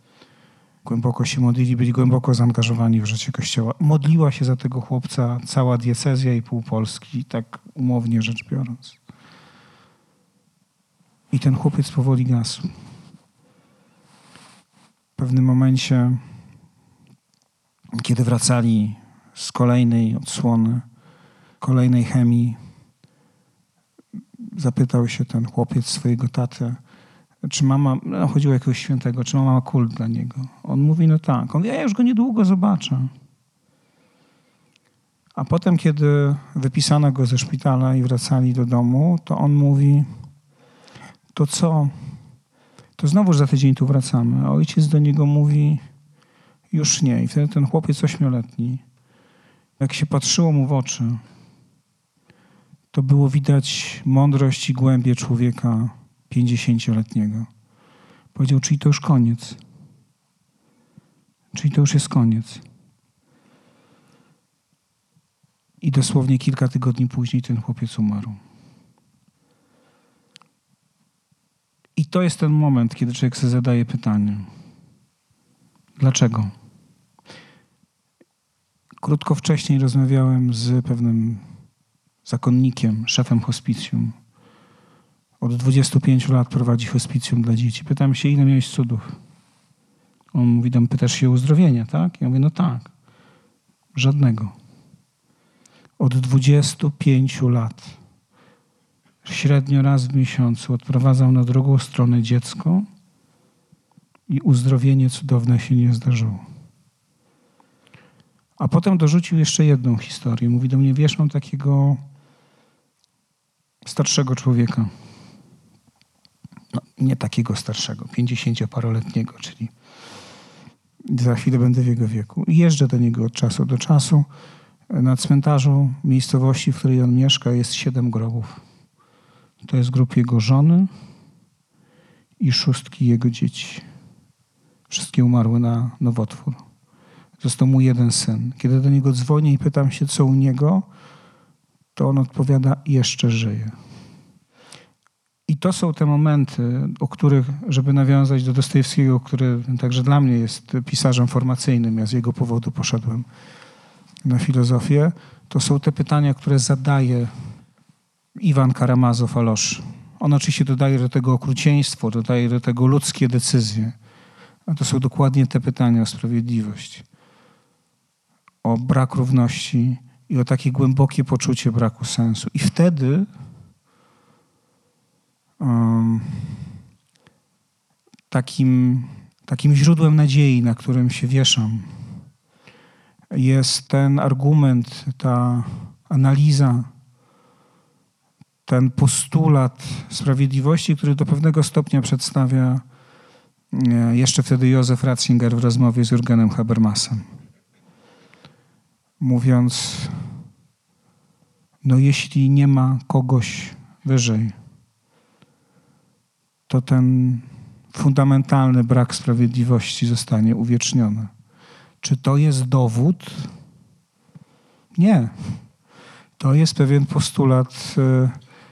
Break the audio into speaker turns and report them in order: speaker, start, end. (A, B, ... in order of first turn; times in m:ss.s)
0:00.8-0:09.0 A
0:11.3-0:12.7 A
0:15.2-0:16.2 A
0:18.0-0:20.8 A
0:21.6-0:22.6 A
0:24.5-0:26.8 A
0:27.4-0:33.1 A
0:35.4-0:40.1 A
0:41.4-0:42.0 A
0:43.0-0:45.8 A
0:46.7-0:48.8 A
0:49.8-0:51.2 A
0:52.9-0:57.5 A
0:58.4-0:59.6 A
1:01.5-1:02.6 A
1:05.8-1:08.4 A
1:12.0-1:14.5 A
1:16.0-1:16.5 A
1:19.0-1:21.4 A
1:22.3-1:24.2 A
1:25.4-1:29.2 A
1:30.3-1:32.9 A
1:34.0-1:34.5 A
1:36.0-1:37.9 A
1:39.2-1:42.9 A
1:44.3-1:46.4 A
1:48.6-1:52.0 A
1:53.9-1:54.9 A
1:57.0-1:59.7 A
2:01.1-2:04.3 A
2:04.9-2:08.6 A
2:09.6-2:10.9 A
2:12.4-2:13.8 A
2:14.9-2:16.6 A
2:17.4-2:20.9 A
2:22.0-2:23.7 A
2:25.5-2:33.3 A
2:34.2-2:37.3 A
2:38.4-2:44.0 A
2:44.7-2:47.0 A
2:48.6-2:53.3 A
2:55.6-2:56.6 A
2:58.3-3:02.1 A
3:03.3-3:06.9 A
3:08.7-3:12.8 A
3:13.7-3:17.2 A
3:19.2-3:20.2 A
3:21.8-3:24.6 A
3:26.7-3:31.3 A
3:32.0-3:33.5 A
3:35.0-3:35.6 A
3:36.4-3:38.4 A